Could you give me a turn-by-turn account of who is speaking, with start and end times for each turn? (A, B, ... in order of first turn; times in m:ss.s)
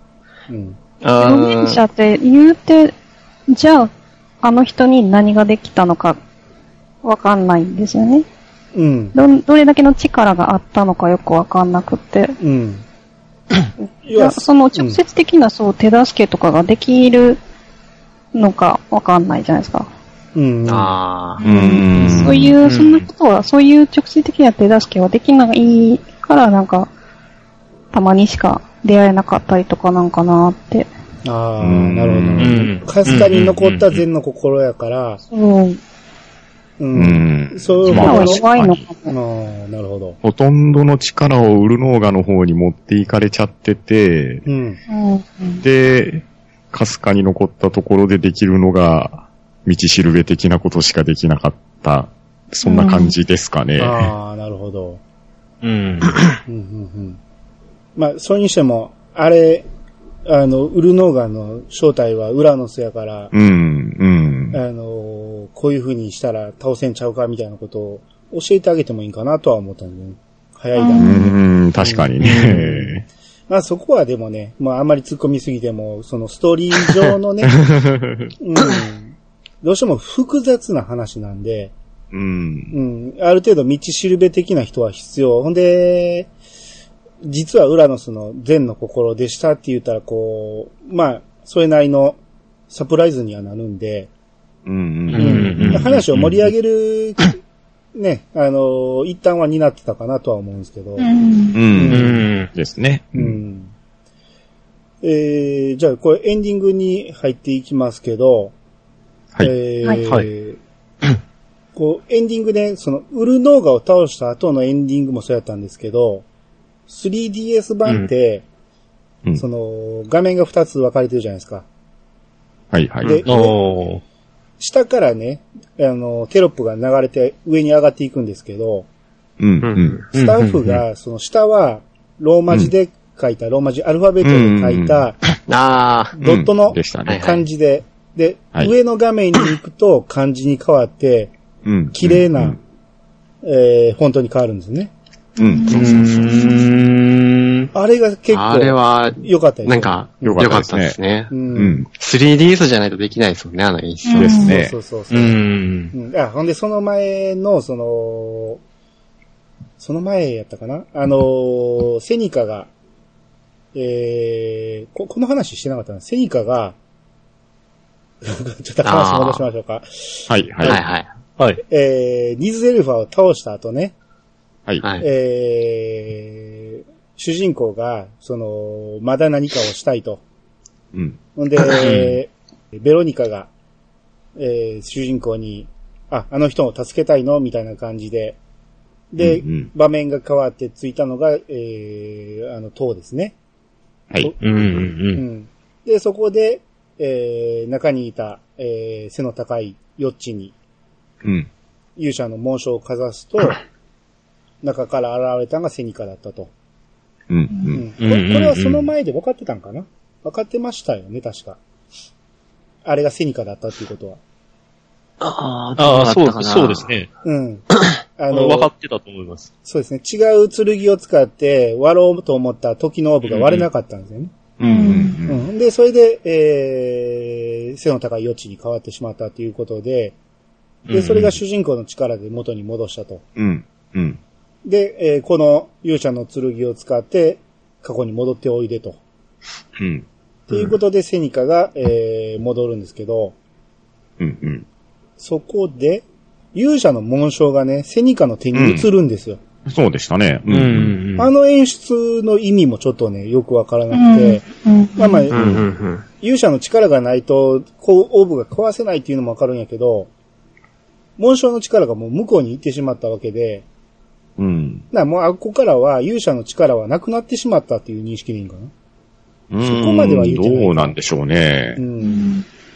0:00.5-0:00.8 A
0:01.0-0:01.8 B
0:01.1-0:02.9 C
0:03.5-0:03.9 C
0:04.4-0:06.2 C
0:07.0-0:08.2 C
0:08.7-0:09.2 A
0:09.1-0:12.4 C
0:12.4-0:12.8 A
0:14.0-0:17.4 C
0:14.0-0:15.0 A
0:18.3-0:19.9 C
0:20.3-0:20.9 A
0:20.7-0:21.4 B
0:21.4-0:26.9 C
0:21.4-0:22.6 D
0:21.9-0:22.3 A
0:22.6-0:23.0 E
0:27.9-0:30.9 C
0:31.2-0:35.2 A
0:31.6-0:32.6 D
0:32.4-0:34.0 E
0:35.3-0:35.8 C
0:36.8-0:38.4 A
0:36.9-0:38.8 D
0:37.9-0:39.1 C
0:39.1-0:40.2 A
0:40.2-0:44.4 D
0:44.4-0:44.8 A
0:44.9-0:45.6 C
0:45.6-0:54.1 D
0:52.6-0:53.1 C
0:53.8-0:55.0 A
0:55.6-0:56.3 E
0:56.4-0:57.2 A
0:58.0-0:59.6 A
1:00.2-1:03.3 A
1:03.3-1:04.6 D
1:04.5-1:11.2 A
1:10.7-1:11.3 C
1:11.0-1:13.0 D
1:11.8-1:12.9 A
1:12.2-1:12.6 E
1:13.5-1:17.6 A
1:17.5-1:18.3 D
1:18.4-1:21.7 A
1:22.1-1:22.7 D
1:22.7-1:26.3 A
1:27.2-1:32.2 A
1:32.7-1:34.1 A
1:34.6-1:36.3 D
1:35.1-1:36.3 E
1:35.1-1:37.4 A
1:37.9-1:41.1 A
1:41.0-1:41.6 C
1:41.5-1:43.4 D
1:41.7-1:42.3 A
1:41.9-1:42.5 E
1:43.1-1:43.7 A
1:45.0-1:48.5 A
1:49.4-1:50.6 A
1:51.8-1:56.2 A
1:56.9-1:58.4 A
1:59.3-2:01.6 A
2:02.7-2:03.2 D
2:03.0-2:03.6 A
2:03.2-2:04.0 E
2:04.6-2:08.9 A
2:09.4-2:10.0 D
2:09.6-2:10.0 B
2:10.1-2:15.2 A
2:10.1-2:10.8 E
2:14.2-2:15.1 D
2:15.5-2:16.2 B
2:16.2-2:21.3 A
2:16.2-2:17.2 D
2:17.0-2:17.4 B
2:21.6-2:22.6 D
2:21.9-2:22.6 A
2:23.4-2:24.9 A
2:25.4-2:26.7 C
2:25.4-2:25.8 D
2:25.7-2:27.7 E
2:25.7-2:26.5 B
2:27.7-2:30.5 A
2:28.3-2:31.3 B
2:30.2-2:31.0 D
2:31.3-2:31.8 A
2:31.5-2:31.9 D
2:31.9-2:34.4 B
2:34.0-2:34.5 C
2:34.1-2:34.8 D
2:34.4-2:35.4 A
2:35.1-2:35.9 E
2:35.9-2:38.6 A
2:39.8-2:42.7 A
2:43.7-2:46.8 A
2:48.2-2:50.7 A
2:48.8-2:49.4 B
2:50.3-2:50.8 D
2:50.6-2:51.1 B
2:51.7-2:53.9 A
2:55.0-3:00.2 A
3:00.9-3:01.2 D
3:01.4-3:03.5 A
3:01.8-3:02.2 E
3:04.4-3:08.4 A
3:09.1-3:13.4 A
3:09.2-3:09.7 D
3:14.1-3:14.8 D
3:14.2-3:20.5 A
3:14.4-3:15.2 E
3:21.2-3:21.5 D
3:22.0-3:23.6 A
3:24.6-3:26.5 A
3:27.3-3:27.8 D
3:27.7-3:31.6 A
3:28.0-3:28.9 E
3:32.8-3:34.2 A
3:35.2-3:36.9 B
3:35.8-3:37.1 E
3:37.2-3:37.6 A
3:38.2-3:38.7 A
3:38.3-3:39.5 E
3:39.6-3:44.3 A
3:43.2-3:43.6 E
3:44.6-3:45.4 D
3:44.6-3:45.2 C
3:45.3-3:50.2 A
3:50.9-3:51.4 E
3:50.9-3:53.2 A
3:53.4-3:54.2 D
3:54.6-3:59.0 A
3:59.8-4:00.7 D
4:00.5-4:03.4 A
4:04.2-4:04.6 D
4:05.2-4:09.4 A
4:08.5-4:08.9 D
4:09.7-4:11.0 D
4:10.5-4:11.3 E
4:11.2-4:14.4 A
4:13.9-4:15.3 C
4:15.0-4:15.3 A
4:15.3-4:16.0 B
4:15.3-4:15.6 D
4:16.2-4:20.1 A
4:21.2-4:23.6 A
4:24.4-4:24.8 D
4:24.9-4:28.7 A
4:29.5-4:31.8 D
4:29.6-4:31.0 A
4:31.8-4:32.3 A
4:32.0-4:32.4 C